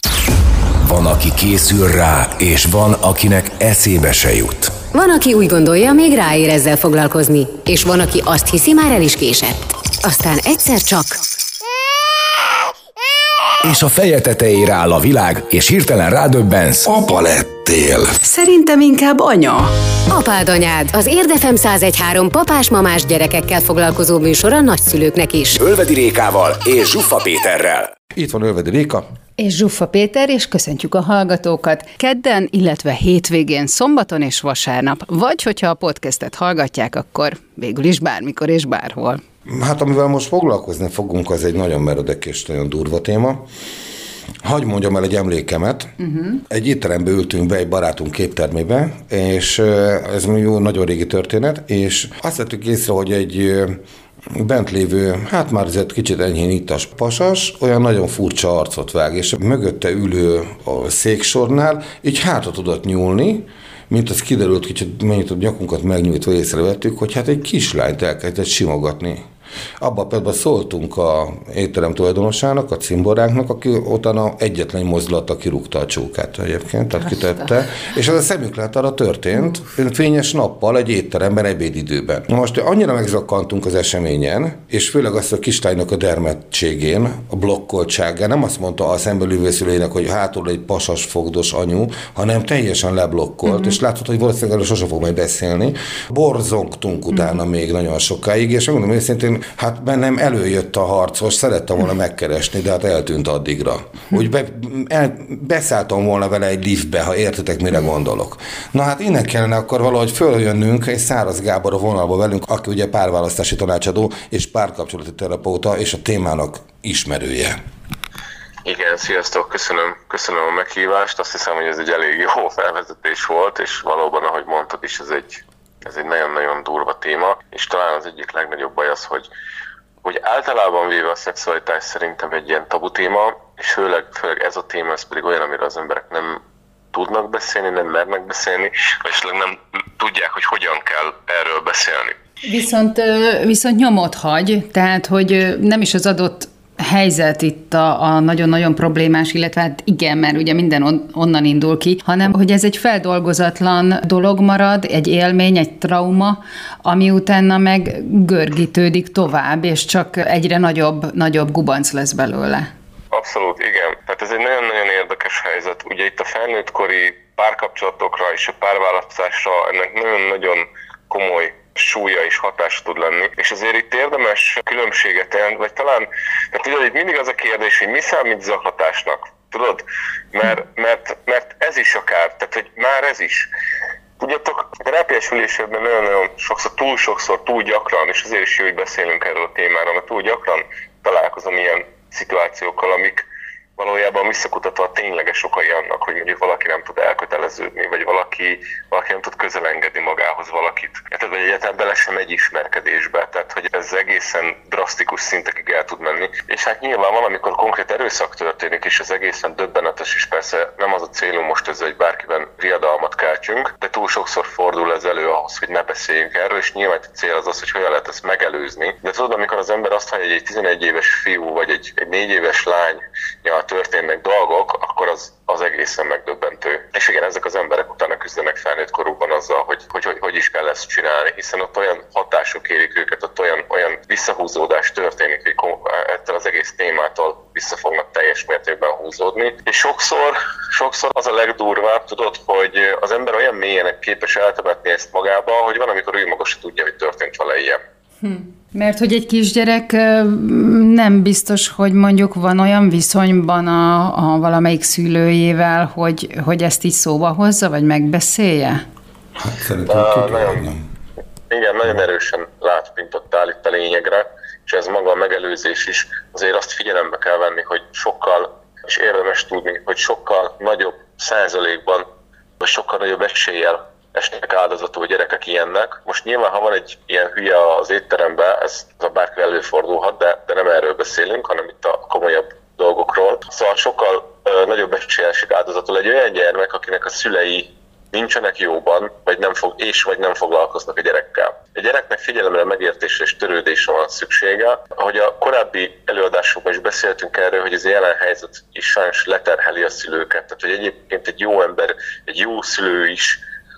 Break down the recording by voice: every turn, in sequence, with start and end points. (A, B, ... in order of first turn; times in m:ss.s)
0:00.8-0:04.8 A
0:04.9-0:11.2 B
0:13.6-0:16.9 A
0:16.8-0:18.1 C
0:18.2-0:19.7 D
0:20.1-0:25.6 B
0:25.6-0:27.9 A
0:28.1-0:29.0 C
0:29.4-0:39.2 D
0:39.4-0:43.4 C
0:44.4-0:45.9 C
0:46.0-0:46.4 D
0:46.4-1:09.2 C
1:09.8-1:57.6 C
1:58.6-2:09.3 E
2:10.0-2:16.4 E
2:16.9-2:22.2 E
2:22.4-2:42.7 D
2:43.1-3:03.5 E
3:04.2-4:07.8 E
4:08.2-4:18.8 D
4:19.4-4:20.8 C
4:19.9-4:20.6 E
4:21.5-4:32.1 E
4:32.6-5:03.4 E